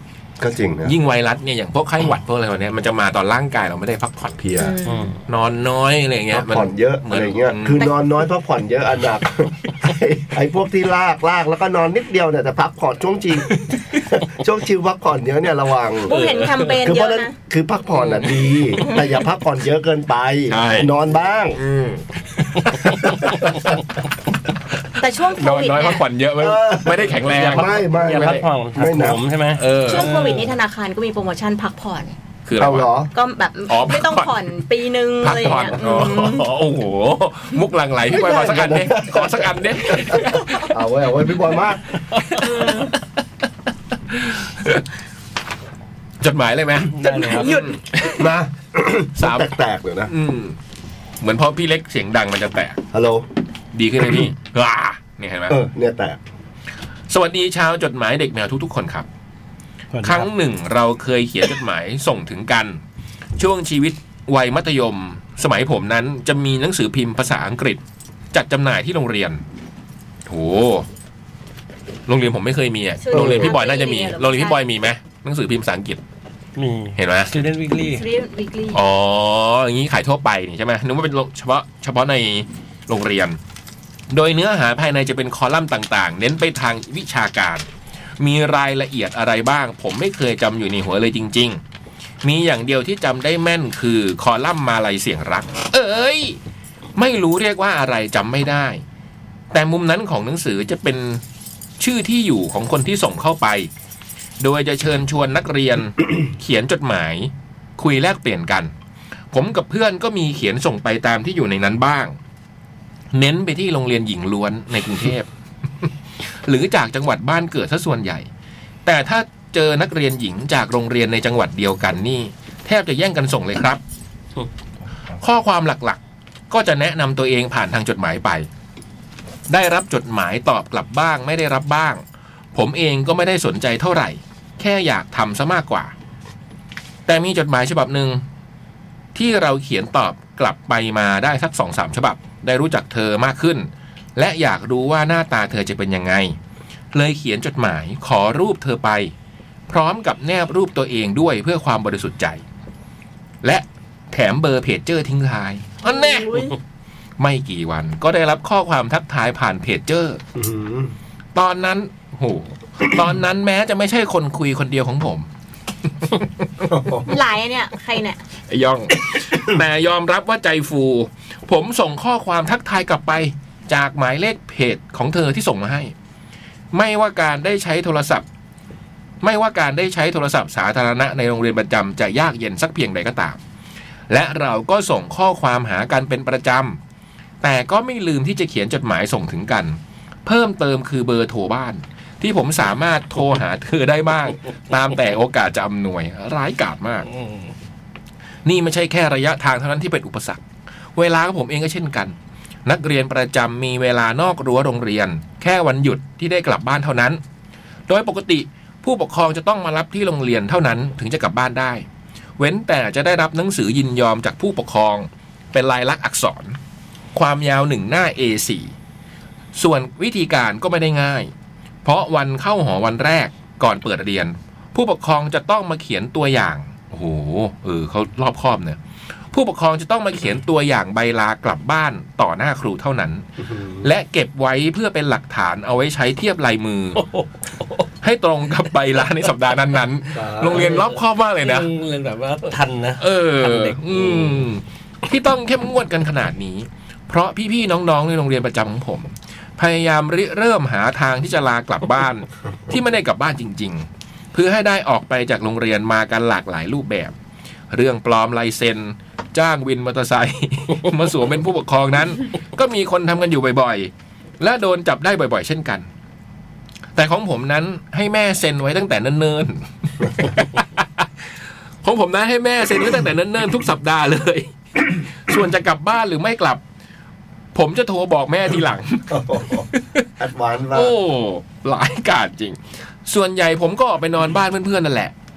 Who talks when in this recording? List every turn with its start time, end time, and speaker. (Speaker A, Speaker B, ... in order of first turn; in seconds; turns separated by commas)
Speaker A: 0.4-0.9, Speaker B: 0.8-4.8, Speaker C: 4.5-5.2, Speaker D: 4.8-5.2, Speaker B: 5.3-7.9, Speaker A: 6.3-16.2, Speaker B: 13.5-14.0, Speaker C: 16.0-17.3, Speaker B: 16.1-16.7, Speaker A: 16.8-21.6, Speaker B: 17.9-19.1, Speaker B: 20.5-20.9, Speaker B: 21.5-23.5, Speaker A: 22.8-23.6, Speaker C: 25.0-26.0, Speaker B: 25.2-28.4, Speaker A: 26.4-29.2, Speaker D: 27.2-30.5, Speaker B: 29.5-30.1, Speaker C: 29.8-32.1, Speaker B: 32.5-32.9, Speaker A: 32.6-33.1, Speaker C: 33.1-36.5, Speaker B: 33.7-34.6, Speaker B: 35.2-40.7, Speaker A: 35.5-35.8, Speaker A: 38.1-41.8, Speaker C: 40.2-40.6, Speaker C: 42.4-42.9, Speaker B: 44.1-44.8, Speaker B: 46.2-47.8, Speaker D: 46.9-47.5, Speaker C: 47.0-48.2, Speaker A: 48.0-50.1, Speaker B: 49.2-49.5, Speaker B: 50.1-50.6, Speaker B: 51.2-52.8, Speaker A: 52.9-53.3, Speaker B: 53.7-55.6, Speaker A: 55.5-56.2, Speaker B: 57.1-59.0, Speaker D: 59.9-60.3, Speaker B: 60.0-62.8, Speaker B: 63.4-67.8, Speaker B: 68.3-69.4, Speaker B: 70.3-70.8, Speaker B: 72.1-76.0, Speaker C: 73.0-74.6, Speaker A: 73.1-73.6, Speaker D: 76.5-78.0, Speaker B: 77.0-77.3, Speaker C: 77.8-78.8, Speaker B: 78.7-83.4, Speaker B: 84.1-87.7, Speaker B: 88.2-91.6, Speaker B: 92.2-96.4, Speaker B: 97.0-98.8, Speaker B: 99.5-101.2, Speaker B: 101.8-103.7, Speaker B: 104.4-108.7, Speaker B: 109.3-112.2, Speaker B: 113.1-115.3, Speaker B: 116.4-118.3, Speaker B: 118.8-123.8, Speaker B: 125.2-126.0, Speaker B: 126.5-128.5, Speaker B: 129.5-132.0, Speaker B: 132.5-135.9, Speaker B: 137.1-138.2, Speaker B: 139.1-146.4, Speaker B: 146.9-149.1, Speaker B: 149.7-152.4, Speaker B: 153.4-156.5, Speaker C: 155.8-156.6, Speaker B: 157.2-160.2, Speaker A: 160.3-160.9, Speaker B: 161.3-165.3, Speaker B: 166.0-166.7, Speaker A: 166.7-167.1, Speaker C: 167.0-168.2, Speaker B: 168.5-175.9, Speaker B: 176.7-178.2, Speaker B: 179.2-183.4, Speaker B: 184.1-186.8, Speaker B: 187.4-197.1, Speaker D: 197.2-197.5, Speaker B: 198.4-200.4, Speaker B: 200.9-202.1, Speaker B: 202.7-207.2, Speaker B: 207.9-211.8, Speaker B: 212.4-216.6, Speaker B: 217.1-218.7, Speaker B: 219.5-221.3, Speaker B: 221.8-228.8, Speaker B: 229.3-233.2, Speaker A: 233.4-233.8, Speaker B: 233.8-237.0, Speaker D: 237.0-237.8, Speaker B: 238.0-241.7, Speaker A: 240.1-240.7, Speaker D: 240.4-244.4, Speaker B: 243.0-257.1, Speaker B: 257.7-265.9, Speaker B: 266.9-271.1, Speaker B: 271.8-276.6, Speaker B: 277.5-280.0, Speaker A: 279.1-279.7, Speaker A: 280.2-280.9, Speaker B: 280.7-285.1